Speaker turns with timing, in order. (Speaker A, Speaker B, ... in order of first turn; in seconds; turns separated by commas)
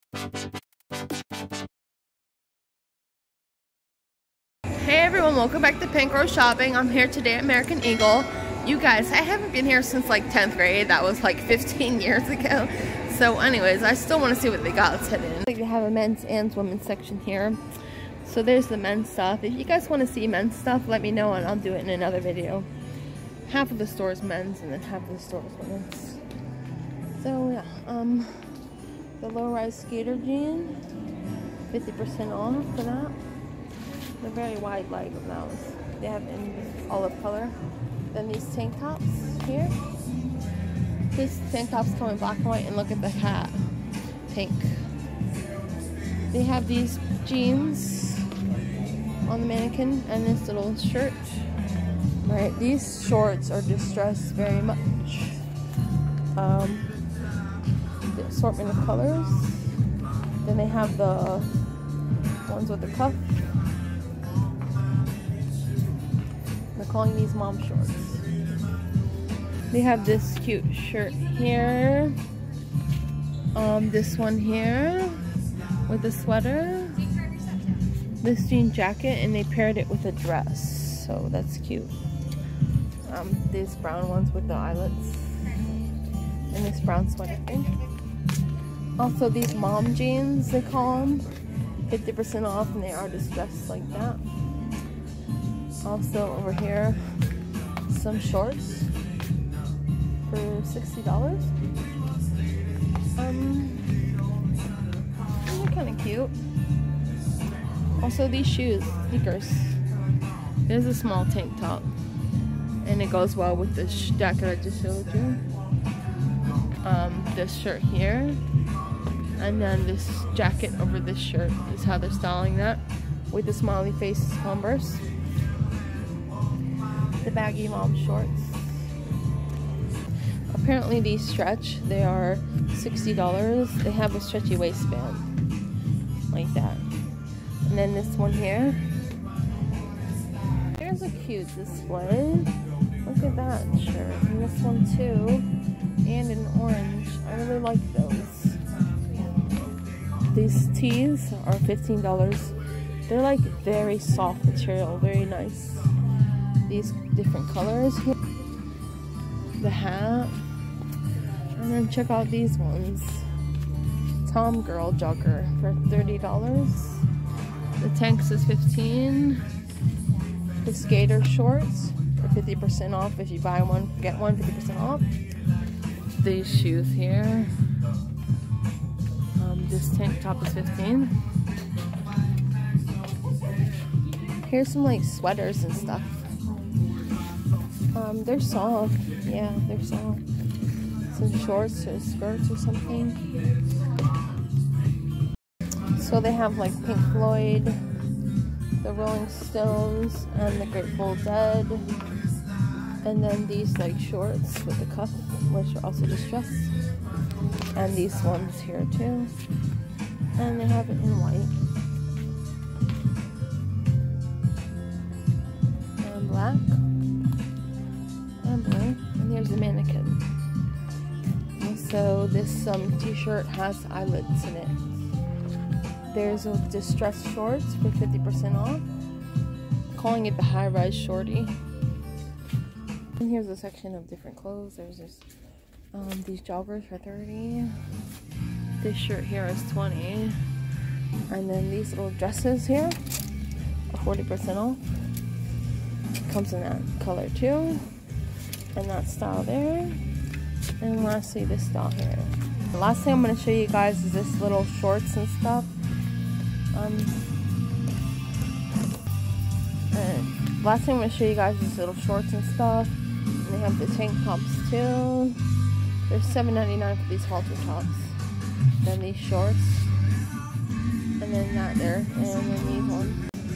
Speaker A: 4.8-22.7, Speaker A: 23.4-26.2, Speaker A: 27.1-28.6, Speaker A: 29.2-30.8, Speaker A: 31.7-33.2, Speaker A: 34.2-37.6, Speaker A: 38.1-39.8, Speaker A: 41.1-44.9, Speaker A: 46.3-48.4, Speaker A: 49.2-51.5, Speaker A: 52.2-55.5, Speaker A: 56.3-56.9, Speaker A: 58.0-59.8, Speaker A: 60.4-61.5, Speaker A: 62.4-63.3, Speaker A: 66.7-68.3, Speaker A: 69.7-72.2, Speaker A: 73.5-77.2, Speaker A: 78.2-81.9, Speaker A: 83.0-85.6, Speaker A: 86.5-87.8, Speaker A: 89.0-91.3, Speaker A: 91.8-94.2, Speaker A: 95.8-97.1, Speaker A: 97.8-98.9, Speaker A: 100.2-101.5, Speaker A: 103.1-104.1, Speaker A: 105.3-106.3, Speaker A: 107.9-109.8, Speaker A: 110.6-111.9, Speaker A: 112.8-115.4, Speaker A: 116.8-118.5, Speaker A: 119.4-125.0, Speaker A: 127.2-128.9, Speaker A: 130.5-135.3, Speaker A: 136.3-136.8, Speaker A: 137.6-138.9, Speaker A: 140.7-145.5, Speaker A: 146.0-148.6, Speaker A: 150.3-156.1, Speaker A: 156.6-158.2, Speaker A: 159.6-160.4, Speaker A: 161.5-163.3, Speaker A: 164.2-167.1, Speaker A: 167.8-169.4, Speaker A: 170.6-175.2, Speaker A: 176.1-177.6, Speaker A: 179.3-181.2, Speaker A: 184.4-186.3, Speaker A: 187.9-190.2, Speaker A: 191.1-193.4, Speaker A: 195.9-197.8, Speaker A: 198.8-201.9, Speaker A: 203.0-206.8, Speaker A: 207.7-209.3, Speaker A: 210.3-211.6, Speaker A: 216.0-216.8, Speaker A: 218.4-220.3, Speaker A: 221.6-225.0, Speaker A: 226.1-228.9, Speaker A: 229.9-231.6, Speaker A: 233.2-235.2, Speaker A: 235.9-237.8, Speaker A: 238.8-240.4, Speaker A: 241.3-243.0, Speaker A: 243.9-244.8, Speaker A: 246.2-247.9, Speaker A: 248.7-250.0, Speaker A: 250.8-255.7, Speaker A: 256.7-257.2, Speaker A: 259.9-265.5, Speaker A: 266.1-268.2, Speaker A: 268.8-269.9, Speaker A: 271.2-273.2